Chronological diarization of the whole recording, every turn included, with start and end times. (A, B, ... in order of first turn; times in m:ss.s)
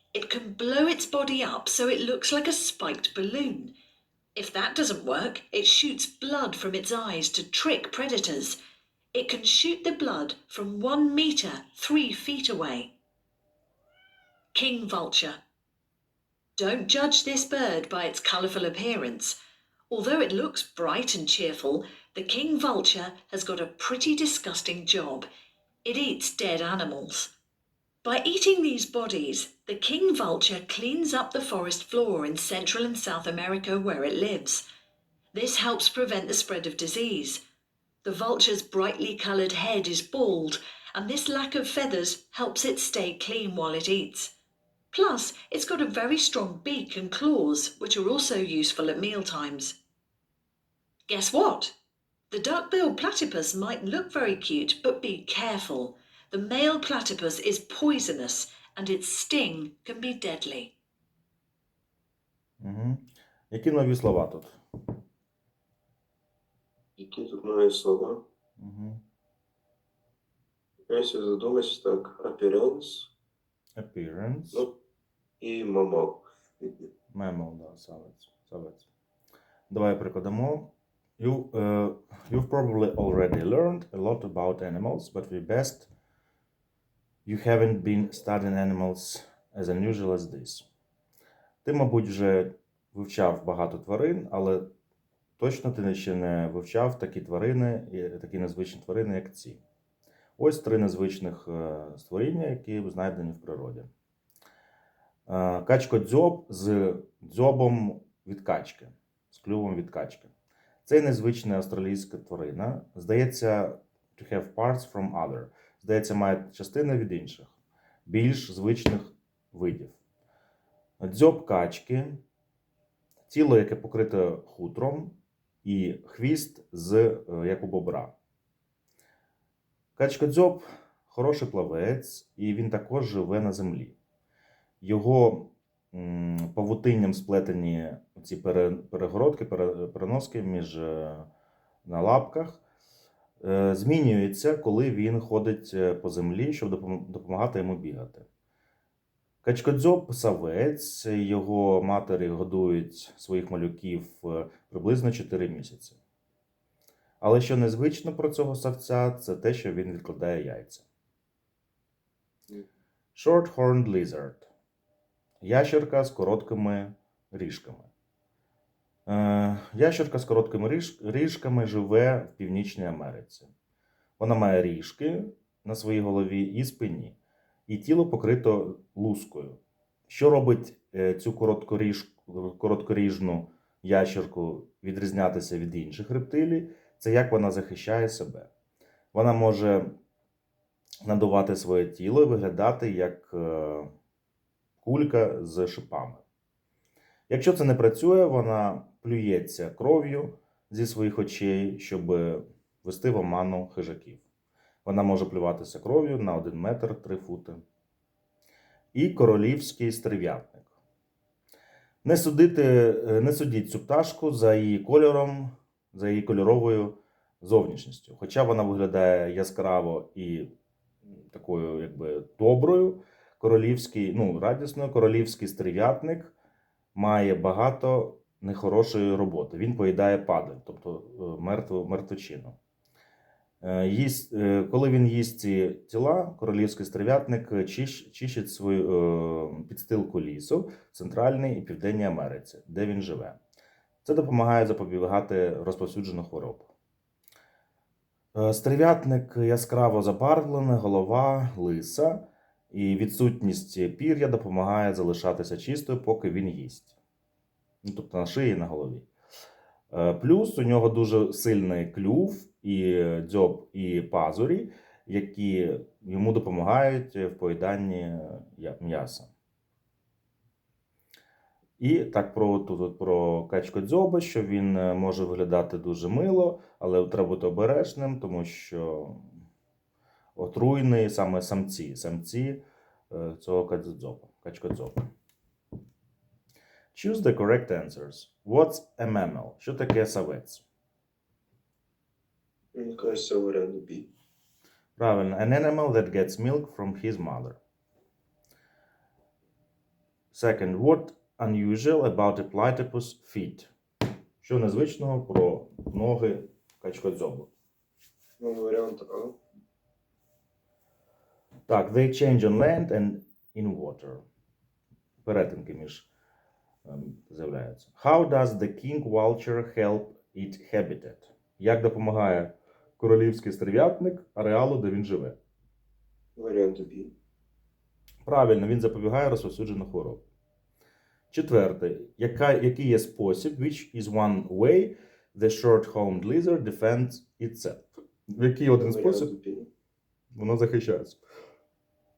0:00.1-0:03.7 A
0:04.4-0:08.6 A
0:09.1-0:12.9 A
0:14.5-0:15.4 A
0:16.6-0:19.3 A
0:19.9-0:25.3 A
0:25.8-0:27.3 A
0:28.0-0:34.6 A
0:35.3-0:37.4 A
0:38.0-0:44.3 A
0:44.9-0:49.8 A
0:51.1-0:51.7 A
0:52.3-1:00.7 A
1:02.6-1:04.6 B
1:07.0-1:08.2 C
1:08.6-1:09.0 B
1:10.9-1:13.1 C
1:13.8-1:14.6 B
1:15.4-1:16.7 C
1:17.1-1:18.8 B
1:19.7-1:25.9 B
1:27.2-1:30.6 B
1:31.6-1:34.7 B
1:35.4-1:39.6 B
1:40.4-1:43.9 B
1:45.3-1:50.3 B
1:50.8-1:57.5 B
1:58.1-2:00.0 B
2:01.0-2:02.2 B
2:03.3-2:08.1 B
2:10.0-2:14.0 B
2:14.8-2:21.3 B
2:21.8-2:22.6 B
2:23.4-2:28.2 B
2:29.4-2:36.0 B
2:37.2-2:40.8 B
2:43.2-2:44.5 B
2:45.4-2:47.9 B
2:49.1-2:53.5 B
2:54.2-2:57.2 B
2:57.7-3:08.5 B
3:09.1-3:09.9 B
3:11.0-3:13.9 B
3:14.8-3:16.2 B
3:17.3-3:24.2 B
3:24.8-3:27.6 B
3:28.9-3:30.7 B
3:32.0-3:40.5 B
3:41.2-3:46.3 B
3:47.0-3:52.6 B
3:53.6-4:03.4 B
4:04.0-4:06.7 B
4:08.3-4:16.9 B
4:17.8-4:19.1 B
4:19.9-4:29.3 B
4:31.8-4:39.3 B
4:40.4-4:45.0 B
4:46.9-4:50.6 B
4:52.8-4:54.1 C
4:55.0-4:57.6 B
5:00.3-5:03.7 B
5:04.4-5:07.5 B
5:08.4-5:09.4 C
5:11.7-5:14.2 B
5:15.2-5:16.1 B
5:16.9-5:25.4 B
5:26.4-5:27.1 C
5:28.2-5:30.2 B
5:31.3-5:39.3 B
5:38.8-5:39.7 C
5:40.4-5:41.2 B